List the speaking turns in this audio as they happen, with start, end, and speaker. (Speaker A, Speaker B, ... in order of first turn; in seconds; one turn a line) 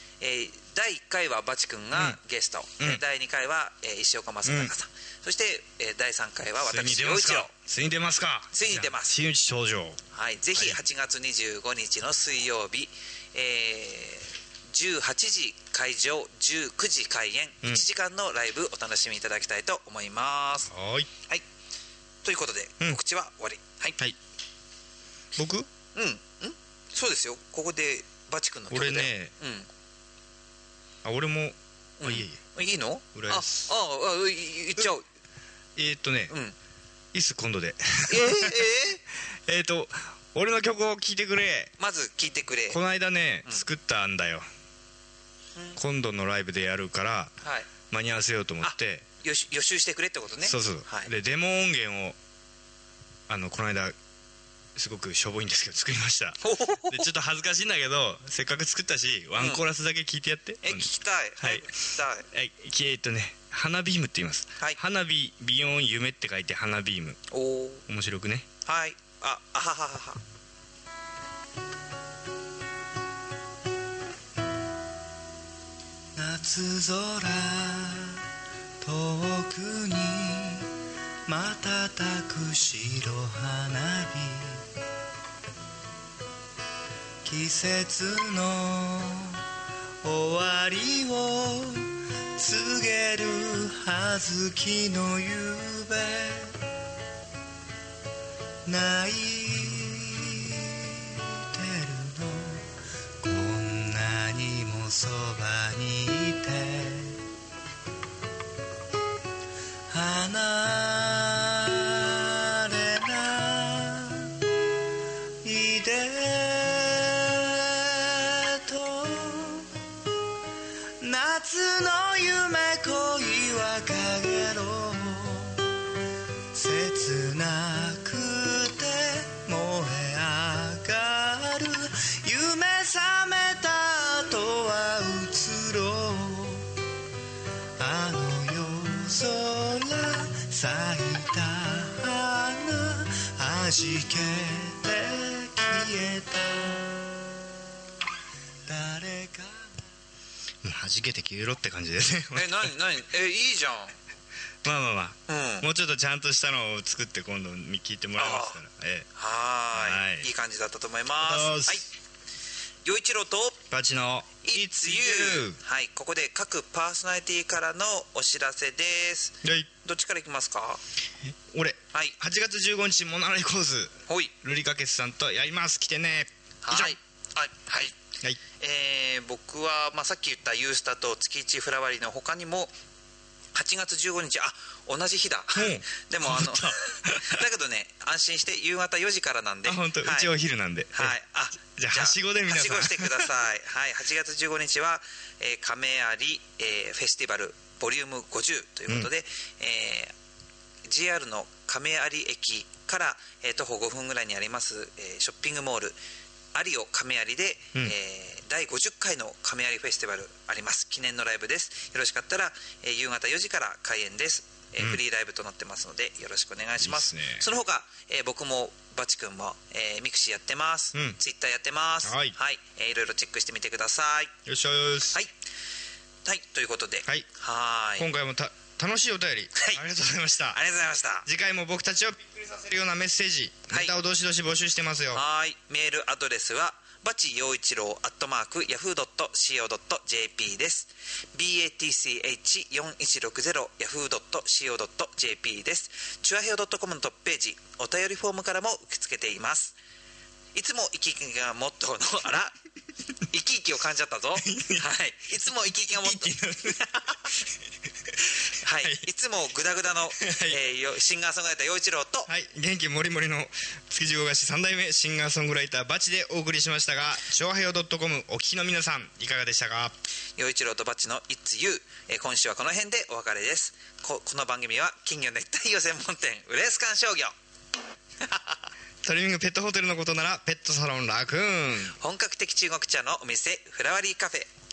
Speaker A: 0.2-7.5
Speaker B: 1.9-2.2
Speaker B: 4.4-4.7
Speaker B: 6.6-10.0
Speaker A: 8.5-9.2
Speaker A: 10.1-20.7
Speaker B: 10.6-10.8
Speaker B: 20.7-21.1
Speaker A: 22.2-24.0
Speaker B: 25.4-25.7
Speaker A: 25.9-29.7
Speaker B: 28.7-29.3
Speaker B: 31.0-32.4
Speaker A: 32.0-35.0
Speaker B: 33.1-33.7
Speaker B: 35.8-36.3
Speaker A: 36.3-36.5
Speaker B: 37.1-38.6
Speaker A: 38.1-39.0
Speaker B: 39.3-41.7
Speaker A: 41.8-42.8
Speaker B: 42.7-44.4
Speaker B: 45.8-47.4
Speaker A: 47.4-47.7
Speaker B: 47.9-49.0
Speaker A: 48.6-51.1
Speaker B: 50.4-52.2
Speaker B: 53.3-53.9
Speaker B: 54.8-61.7
Speaker A: 56.4-57.1
Speaker A: 59.4-59.6
Speaker A: 60.6-62.3
Speaker B: 62.2-67.2
Speaker A: 67.3-67.8
Speaker B: 67.9-68.5
Speaker A: 68.7-70.2
Speaker C: 77.5-78.1
Speaker C: 78.8-80.6
Speaker C: 81.3-84.5
Speaker C: 87.3-88.0
Speaker C: 90.1-90.8
Speaker C: 92.4-93.2
Speaker C: 95.6-96.2
Speaker C: 98.7-99.0
Speaker B: 99.7-100.4
Speaker C: 106.1-106.9
Speaker C: 109.9-111.6
Speaker C: 113.0-114.2
Speaker C: 115.4-119.7
Speaker C: 121.0-125.5
Speaker C: 126.5-136.6
Speaker C: 137.8-146.8
Speaker C: 148.7-149.5
Speaker B: 150.6-152.7
Speaker A: 152.3-153.9
Speaker B: 154.6-159.1
Speaker A: 155.3-155.7
Speaker A: 158.2-158.6
Speaker A: 159.1-161.9
Speaker B: 159.7-160.3
Speaker B: 161.2-161.8
Speaker A: 162.8-163.6
Speaker B: 163.7-165.6
Speaker A: 164.4-170.8
Speaker B: 169.4-169.7
Speaker B: 171.2-176.9
Speaker A: 176.6-177.9
Speaker A: 178.6-182.7
Speaker A: 183.5-190.3
Speaker B: 185.5-187.4
Speaker B: 189.6-191.2
Speaker A: 190.9-200.1
Speaker B: 191.8-193.3
Speaker A: 200.8-206.0
Speaker A: 206.5-224.3
Speaker B: 216.8-217.4
Speaker B: 222.0-222.3
Speaker B: 224.4-225.2
Speaker A: 226.2-228.1
Speaker B: 228.0-230.6
Speaker A: 229.5-229.8
Speaker A: 230.5-231.2
Speaker B: 231.2-235.2
Speaker A: 235.1-249.7
Speaker A: 250.5-252.5
Speaker A: 253.3-257.4
Speaker B: 254.4-254.9
Speaker B: 255.7-257.4
Speaker A: 258.6-262.3
Speaker B: 260.2-260.6
Speaker B: 262.3-269.9
Speaker A: 270.4-277.3
Speaker A: 278.2-278.6
Speaker B: 279.0-281.9
Speaker A: 282.0-284.5